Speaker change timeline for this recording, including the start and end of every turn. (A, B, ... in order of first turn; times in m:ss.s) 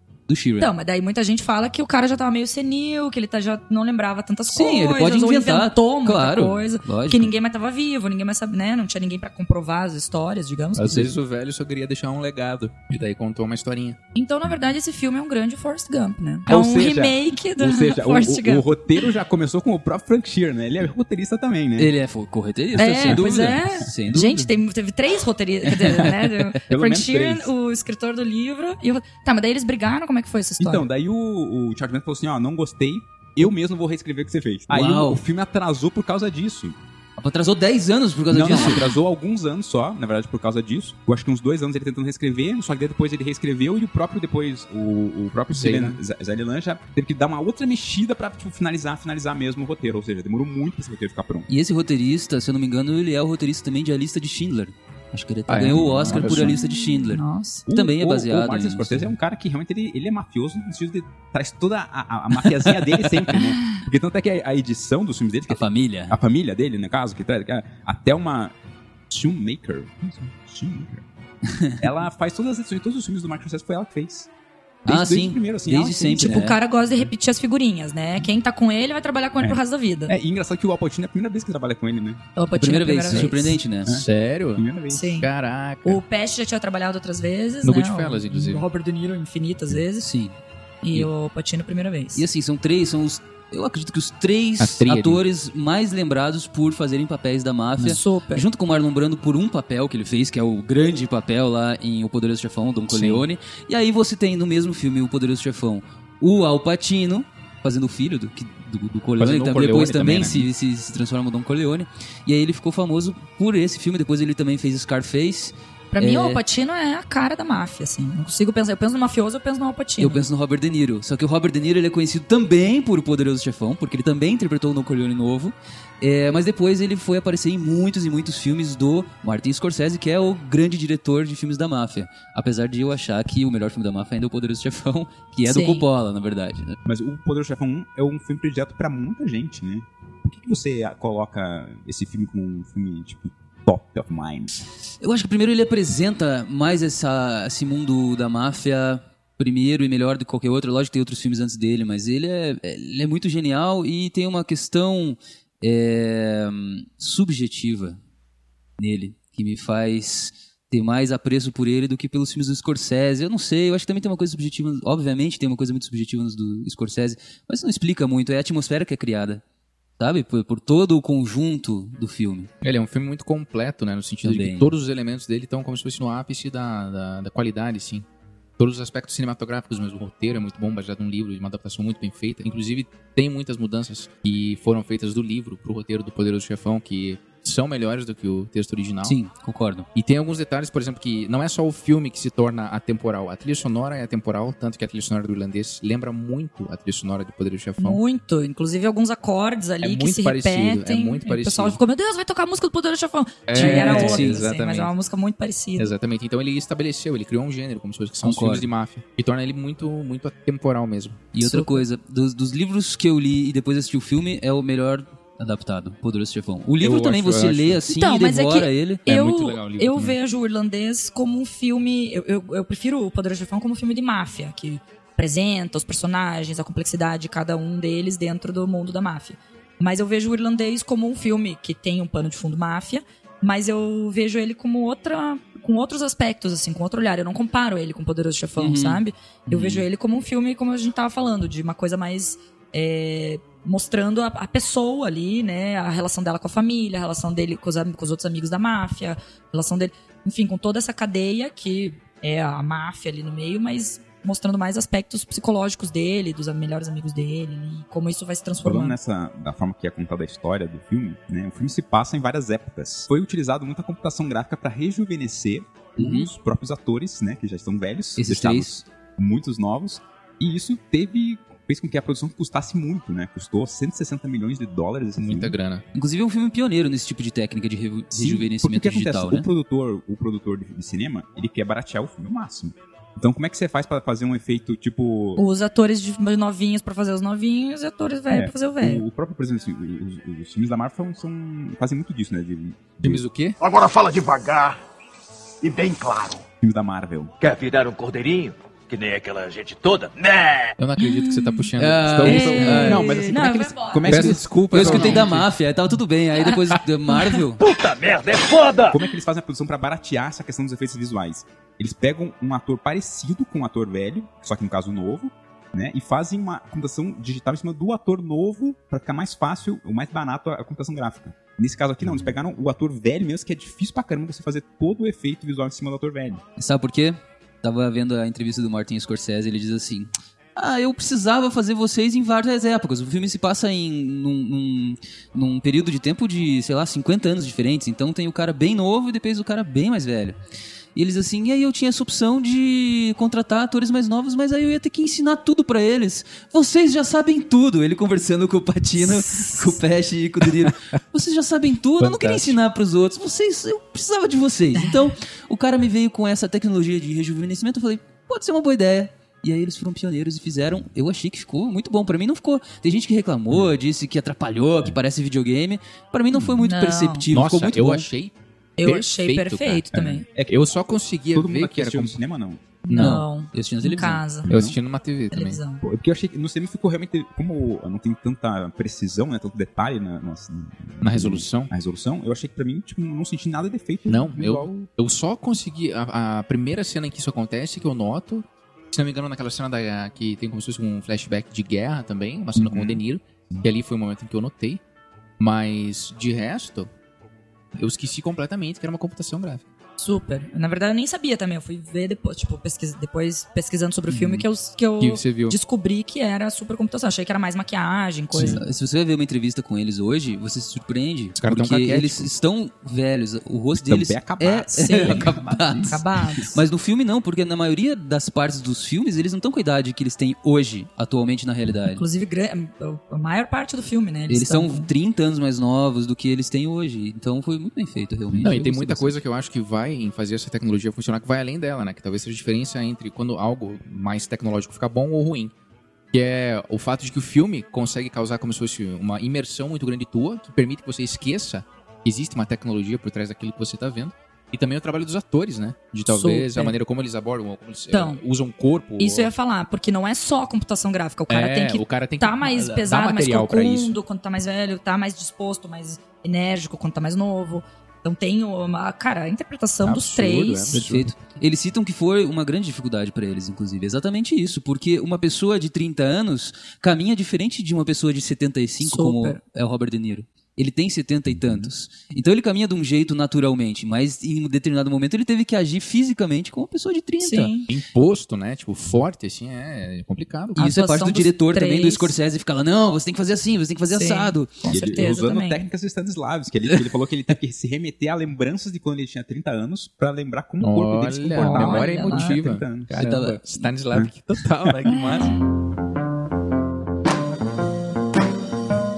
0:00.3-0:00.7 A
0:00.6-0:11.1 B
0:04.5-0:07.3 A
0:10.8-0:14.0 C
0:14.2-0:18.7 B
0:16.5-0:21.9 D
0:21.8-0:24.5 A
0:22.8-0:30.9 B
0:23.0-0:23.2 D
0:25.7-0:26.4 A
0:26.7-0:27.5 D
0:30.6-0:36.8 D
0:34.7-0:35.2 A
0:37.2-0:38.9 A
0:38.3-0:51.5 D
0:45.5-0:46.0 C
0:51.5-0:59.1 A
0:55.5-0:56.6 C
0:56.3-0:57.7 B
0:57.7-1:08.5 D
1:02.4-1:03.4 A
1:05.5-1:06.2 A
1:09.1-1:11.0 D
1:11.8-1:14.3 D
1:14.8-1:16.4 D
1:14.9-1:16.6 A
1:16.1-1:20.1 B
1:19.4-1:22.2 D
1:22.4-1:23.6 B
1:22.6-1:23.9 A
1:23.8-1:25.2 D
1:23.9-1:24.6 C
1:24.9-1:25.3 B
1:25.2-1:26.0 C
1:25.8-1:30.1 B
1:27.6-1:28.6 C
1:30.0-1:30.4 A
1:30.8-1:32.2 B
1:32.2-1:56.4 A
1:34.6-1:35.2 C
1:37.8-1:38.5 B
1:42.9-1:43.3 C
1:49.2-1:50.5 C
1:55.9-2:00.3 B
2:00.0-2:16.8 A
2:15.4-2:15.8 B
2:16.9-2:24.5 D
2:25.0-2:38.0 A
2:38.8-2:49.4 A
2:50.0-2:52.5 A
2:52.6-2:58.1 C
2:54.2-2:54.7 A
2:58.6-3:09.2 C
3:09.0-3:09.9 A
3:10.0-3:18.0 C
3:17.8-3:25.9 B
3:19.8-3:21.8 C
3:23.5-3:24.9 C
3:23.5-3:24.5 A
3:25.8-3:31.3 C
3:28.2-3:28.7 A
3:31.3-3:39.0 A
3:31.4-3:31.8 B
3:36.8-3:37.8 C
3:37.9-4:19.0 B
3:39.1-3:40.2 C
3:58.6-3:59.8 A
4:18.6-4:35.6 D
4:26.0-4:26.3 A
4:28.2-4:28.8 A
4:35.2-4:35.8 C
4:35.9-4:39.5 A
4:38.1-4:45.4 D
4:45.4-4:49.0 B
4:48.3-4:53.2 D
4:53.0-4:53.6 C
4:53.6-4:54.8 E
4:55.6-4:56.4 E
4:56.6-4:57.3 D
4:57.4-5:00.8 E
5:00.8-5:02.9 C
5:01.0-5:01.7 B
5:01.8-5:03.3 A
5:02.1-5:05.2 D
5:02.2-5:04.3 B
5:04.0-5:05.5 C
5:04.7-5:07.6 A
5:07.6-5:09.0 E
5:08.9-5:26.4 D
5:26.6-5:40.4 A
5:41.0-6:08.1 A
5:49.0-5:49.8 B
5:52.0-5:52.6 C
5:54.8-5:55.1 B
6:06.6-6:07.3 B
6:07.3-6:12.2 C
6:08.8-6:10.3 B
6:10.3-6:10.8 D
6:11.3-6:12.8 D
6:12.8-6:14.5 B
6:12.9-6:13.2 C
6:13.0-6:14.2 A
6:14.5-6:14.8 D
6:14.5-6:15.6 C
6:15.3-6:15.8 B
6:15.8-6:24.7 D
6:21.0-6:21.7 C
6:24.1-6:34.8 C
6:32.6-6:33.0 D
6:35.4-6:36.9 C
6:37.8-6:39.6 C
6:40.0-6:48.6 B
6:44.1-6:44.4 A
6:45.0-6:45.6 C
6:48.3-6:48.6 C
6:48.4-7:02.0 A
6:51.4-6:52.3 C
6:53.8-6:56.0 D
6:54.7-6:56.6 B
7:01.9-7:04.9 B
7:04.3-7:09.2 A
7:08.4-7:15.5 C
7:16.1-7:29.3 C
7:26.1-7:26.8 B
7:27.9-7:28.2 B
7:29.0-7:40.8 B
7:31.3-7:34.0 C
7:39.8-7:41.1 C
7:40.7-7:57.5 A
7:48.8-7:49.4 B
7:57.2-7:57.7 B
7:57.7-8:00.7 C
8:00.6-8:02.2 B
8:00.6-8:04.5 A
8:03.9-8:05.6 B
8:04.7-8:12.9 D
8:10.6-8:15.3 C
8:11.4-8:12.4 B
8:13.0-8:13.7 A